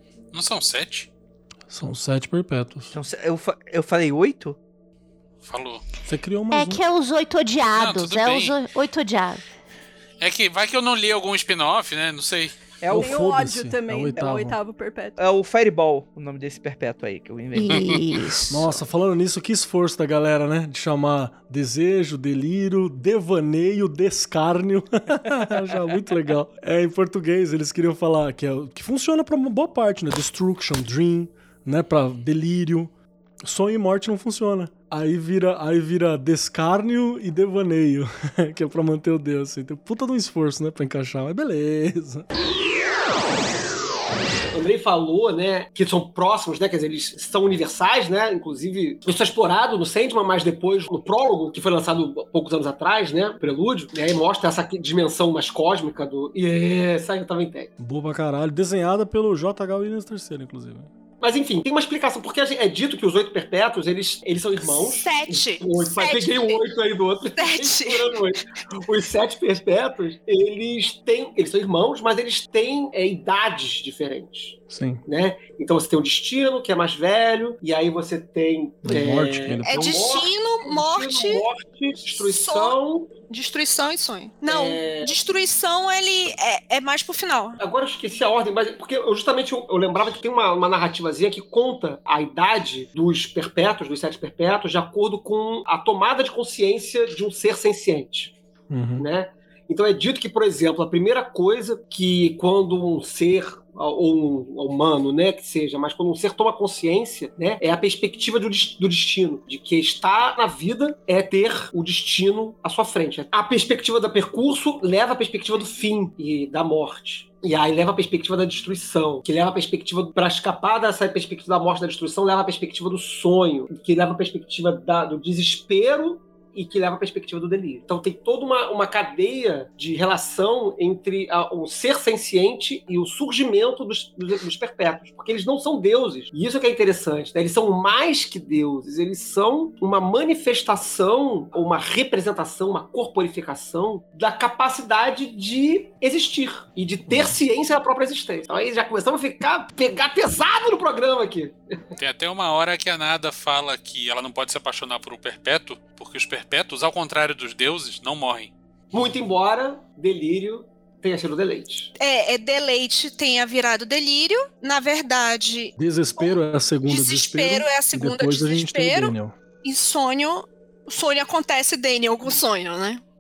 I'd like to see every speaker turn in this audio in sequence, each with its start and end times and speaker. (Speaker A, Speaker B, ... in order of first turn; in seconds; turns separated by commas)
Speaker A: 0.3-1.1, Speaker B: 1.7-2.9, Speaker C: 2.9-4.6, Speaker A: 5.4-5.8, Speaker B: 6.0-6.8, Speaker D: 6.5-9.4, Speaker A: 7.7-8.6, Speaker A: 10.2-12.8, Speaker C: 12.8-13.1, Speaker B: 12.9-14.6, Speaker E: 13.0-15.2, Speaker C: 15.2-17.9, Speaker D: 17.6-18.8, Speaker A: 17.7-18.2, Speaker B: 18.5-32.9, Speaker B: 33.4-42.3, Speaker F: 44.5-57.7, Speaker B: 57.8-60.9, Speaker F: 61.2-83.1, Speaker G: 64.6-66.7, Speaker G: 67.4-68.2, Speaker B: 74.7-75.0, Speaker B: 78.8-80.0, Speaker G: 79.7-81.5, Speaker G: 82.1-82.8, Speaker G: 83.3-87.6, Speaker F: 84.5-85.1, Speaker F: 87.6-98.3, Speaker B: 98.7-99.1, Speaker F: 99.0-151.9, Speaker A: 152.0-158.5, Speaker F: 158.9-161.9, Speaker G: 162.0-173.0, Speaker B: 165.8-169.3